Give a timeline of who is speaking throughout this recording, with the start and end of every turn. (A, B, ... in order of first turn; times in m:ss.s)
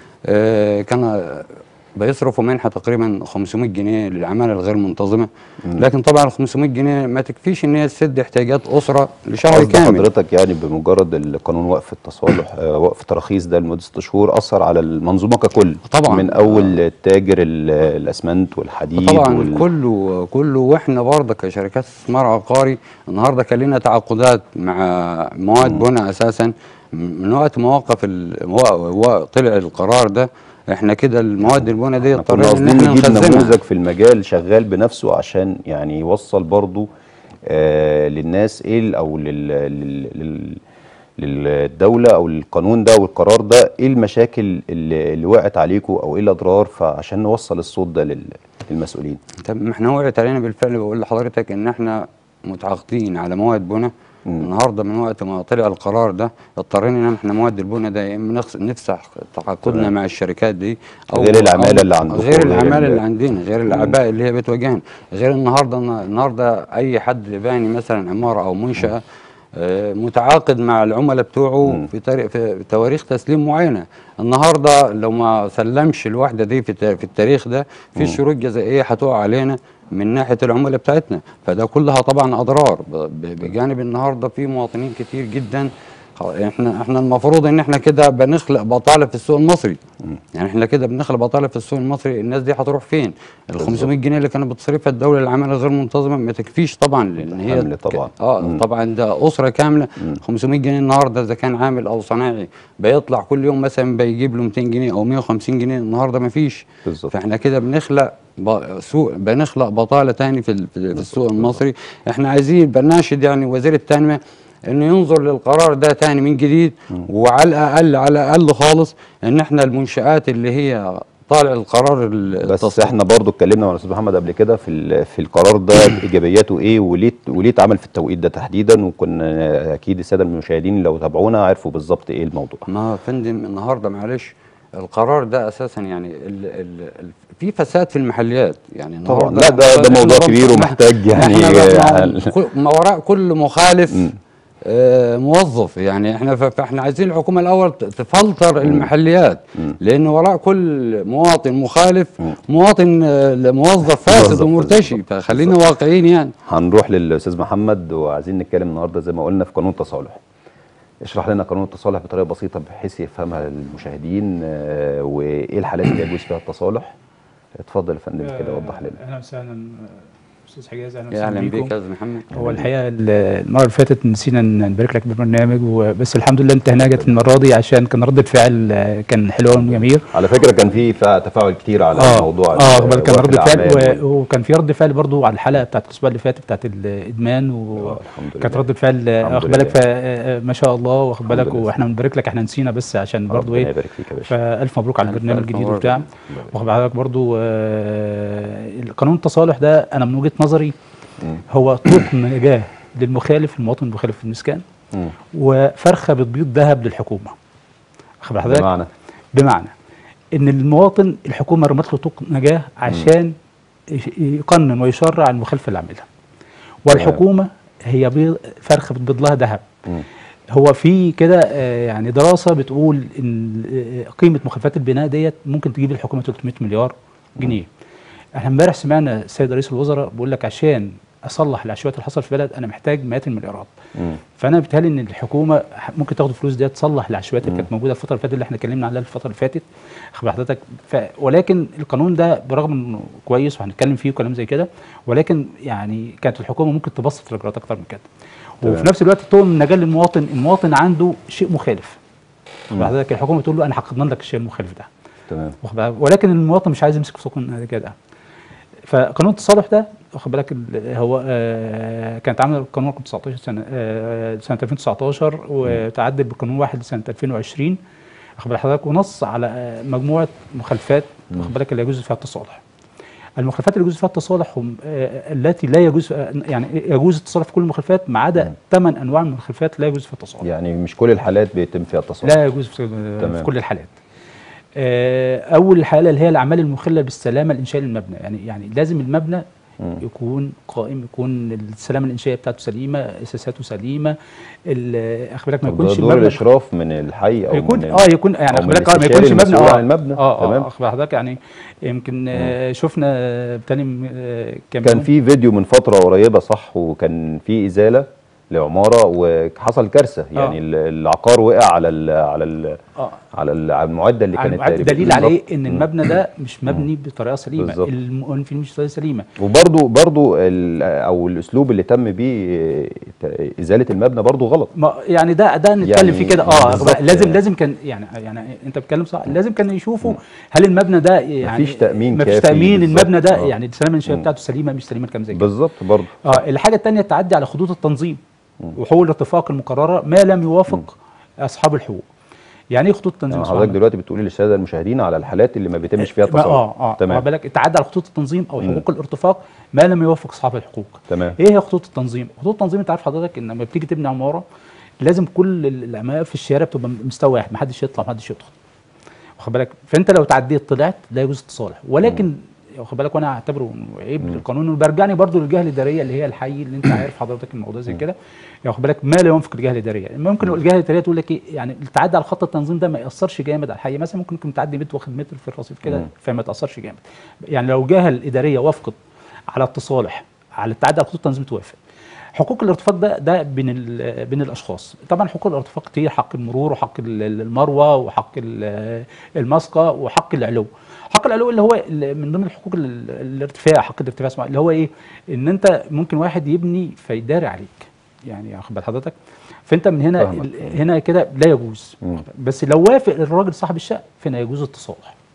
0:00.3-0:10.1 A
0:09.5-0:19.6 B
0:15.9-0:16.8 A
0:19.0-0:33.5 A
0:32.0-0:36.9 B
0:37.5-0:40.6 B
0:41.2-0:49.2 B
0:49.4-1:09.0 A
0:59.6-0:59.9 B
1:01.1-1:03.0 B
1:03.7-1:04.0 B
1:09.6-1:29.8 A
1:30.3-2:02.9 A
1:33.6-1:33.9 B
1:37.4-1:38.6 B
1:46.8-1:47.1 B
2:02.4-2:12.6 B
2:12.7-2:24.1 A
2:19.0-2:22.3 B
2:24.6-2:36.3 A
2:28.6-2:28.9 B
2:34.0-2:35.6 B
2:36.4-2:40.2 B
2:41.0-2:46.9 B
2:47.6-2:49.0 B
2:48.2-2:51.7 C
2:51.1-2:52.3 A
2:52.3-3:00.1 C
2:52.3-2:52.7 B
2:59.6-3:04.0 B
3:02.0-3:13.7 C
3:07.7-3:08.6 B
3:09.2-3:09.8 B
3:11.3-3:11.7 B
3:13.3-3:14.3 B
3:14.2-3:20.7 C
3:15.0-3:16.0 A
3:21.5-3:24.6 C
3:25.3-3:27.3 C
3:28.2-3:28.7 C
3:28.4-3:28.9 B
3:29.3-3:29.7 C
3:30.3-3:33.3 C
3:33.9-3:36.0 C
3:36.8-3:39.6 C
3:36.9-3:37.2 B
3:40.5-3:47.7 C
3:48.4-3:53.7 C
3:54.4-4:08.0 C
4:08.6-4:12.0 C
4:12.7-4:14.9 C
4:15.3-4:15.6 B
4:15.6-4:17.9 C
4:18.8-4:27.8 C
4:28.4-4:32.6 C
4:33.4-4:40.4 C
4:40.4-4:42.4 B
4:42.2-4:43.9 C
4:43.2-4:43.5 B
4:44.8-4:49.4 C
4:50.0-4:54.2 C
4:54.7-4:56.4 C
4:55.6-5:00.7 B
4:57.5-5:05.1 C
5:04.8-5:12.8 B
5:13.3-5:15.9 B
5:14.3-5:19.3 C
5:17.6-5:17.9 B
5:19.4-5:24.7 B
5:24.8-5:35.5 C
5:25.8-5:27.4 B
5:31.4-5:33.5 B
5:35.3-5:36.3 B
5:36.2-5:38.2 C
5:38.7-5:42.0 C
5:42.7-5:43.8 C
5:43.3-5:47.2 B
5:46.0-5:54.4 C
5:51.1-5:51.4 B
5:55.0-5:58.5 C
5:59.4-6:19.0 C
6:19.5-6:21.8 C
6:22.3-6:39.1 C
6:39.7-6:45.1 C
6:40.1-6:40.7 B